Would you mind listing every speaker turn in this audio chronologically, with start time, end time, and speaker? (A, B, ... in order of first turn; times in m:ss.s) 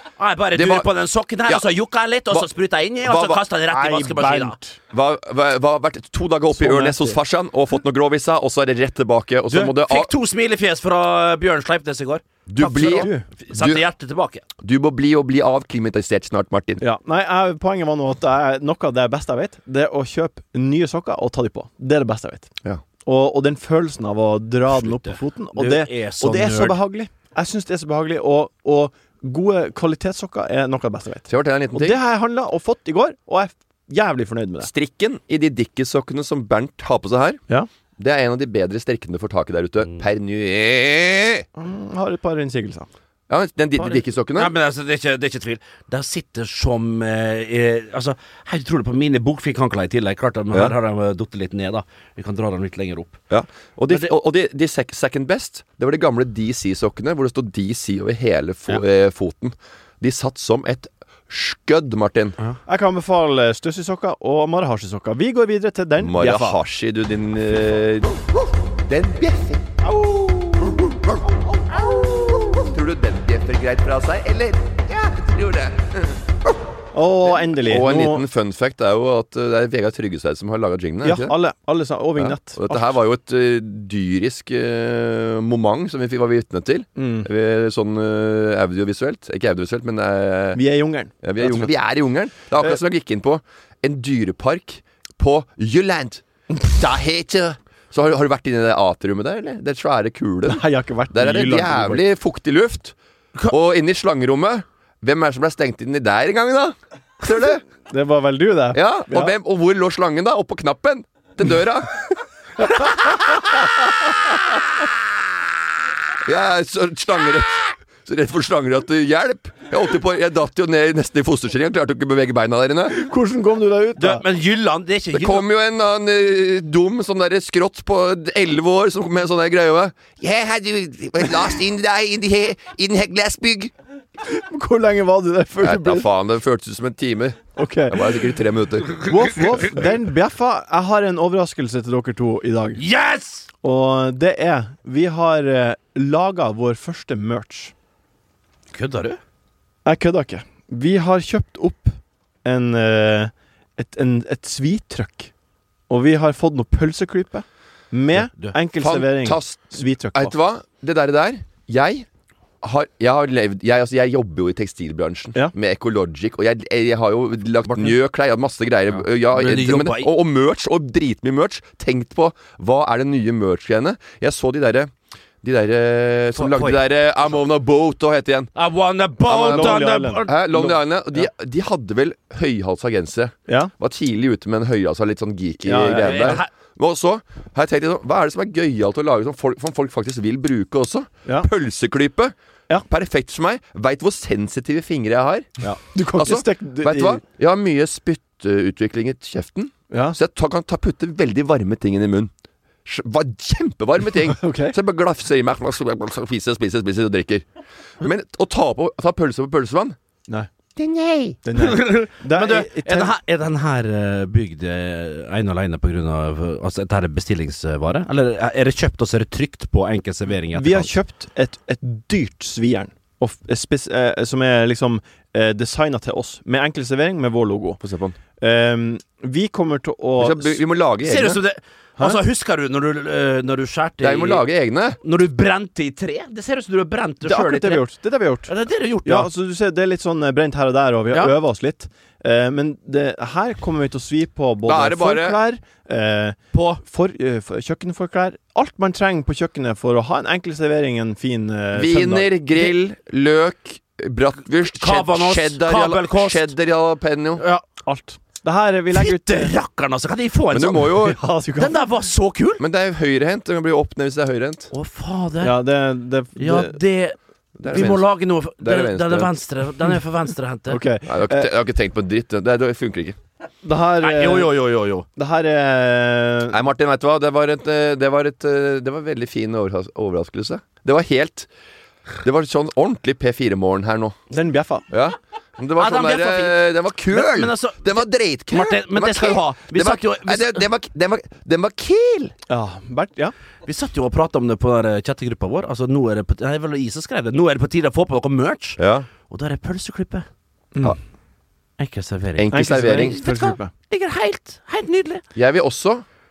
0:00.2-0:04.6 A
0:00.5-0:00.9 B
0:03.0-0:03.4 B
0:03.7-0:04.8 C
0:04.9-0:10.1 B
0:06.6-0:07.2 C
0:09.5-0:14.4 A
0:12.5-0:13.8 B
0:12.8-0:13.3 C
0:14.6-0:16.8 B
0:16.8-0:22.5 C
0:23.0-0:34.7 C
0:24.7-0:26.8 A
0:31.3-0:32.0 B
0:34.6-0:37.4 B
0:38.0-0:41.4 B
0:41.6-0:42.9 C
0:43.3-0:44.5 B
0:43.8-0:53.2 A
0:53.3-1:02.4 B
1:02.7-1:06.6 C
1:06.0-1:16.6 B
1:16.9-1:18.2 C
1:17.2-1:21.4 B
1:21.0-1:23.0 C
1:22.2-1:30.6 B
1:27.0-1:27.3 C
1:30.6-1:31.7 C
1:31.2-1:43.0 B
1:40.5-1:42.0 C
1:43.5-1:47.6 B
1:47.9-1:49.3 C
1:48.7-1:52.0 B
1:56.2-2:03.0 B
2:02.9-2:04.2 C
2:04.0-2:05.5 A
2:05.1-2:13.7 B
2:14.2-2:16.1 C
2:15.6-2:19.1 B
2:17.6-2:18.2 C
2:19.0-2:22.8 C
2:22.8-2:23.5 A
2:23.6-2:27.7 C
2:28.7-2:29.2 A
2:29.8-2:35.3 C
2:35.9-2:40.3 C
2:38.8-2:42.1 B
2:42.6-2:54.9 B
2:49.2-2:50.1 A
2:55.4-2:58.5 B
2:56.4-2:56.8 A
2:58.6-3:00.6 A
2:59.2-3:12.3 B
2:59.5-3:00.3 C
3:05.6-3:06.4 C
3:06.0-3:06.5 A
3:12.9-3:15.6 B
3:15.6-3:17.2 C
3:16.2-3:22.3 B
3:19.9-3:20.2 C
3:22.8-3:27.5 B
3:24.4-3:24.8 C
3:28.0-3:30.0 B
3:30.8-3:31.4 B
3:31.4-3:33.2 C
3:31.6-3:41.0 A
3:40.6-3:47.8 C
3:47.8-3:48.2 B
3:48.4-3:50.6 C
3:50.2-3:51.4 B
3:51.0-3:54.4 A
3:54.0-3:55.0 B
3:55.0-3:57.8 A
3:57.2-3:58.5 C
3:58.5-3:59.3 A
3:59.0-4:12.3 C
4:04.6-4:05.4 B
4:06.5-4:06.8 A
4:11.7-4:17.4 B
4:14.7-4:16.5 A
4:17.4-4:17.6 A
4:17.8-4:19.5 C
4:18.9-4:21.0 A
4:20.5-4:21.2 B
4:21.0-4:21.8 C
4:21.6-4:22.6 A
4:22.6-4:24.7 B
4:24.7-4:25.6 A
4:25.4-4:26.8 C
4:26.4-4:30.8 A
4:27.6-4:29.3 B
4:30.7-4:31.5 C
4:31.1-4:33.2 B
4:33.6-4:34.6 C
4:34.0-4:35.1 A
4:35.2-4:36.6 C
4:36.5-4:41.5 B
4:42.2-4:44.2 B
4:44.3-4:44.9 C
4:44.9-4:52.3 B
4:45.8-4:50.6 A
4:52.5-4:53.3 C
4:53.6-5:00.3 A
4:58.8-4:59.1 B
5:01.8-5:05.2 A
5:02.4-5:03.2 B
5:02.5-5:03.7 C
5:05.4-5:06.0 B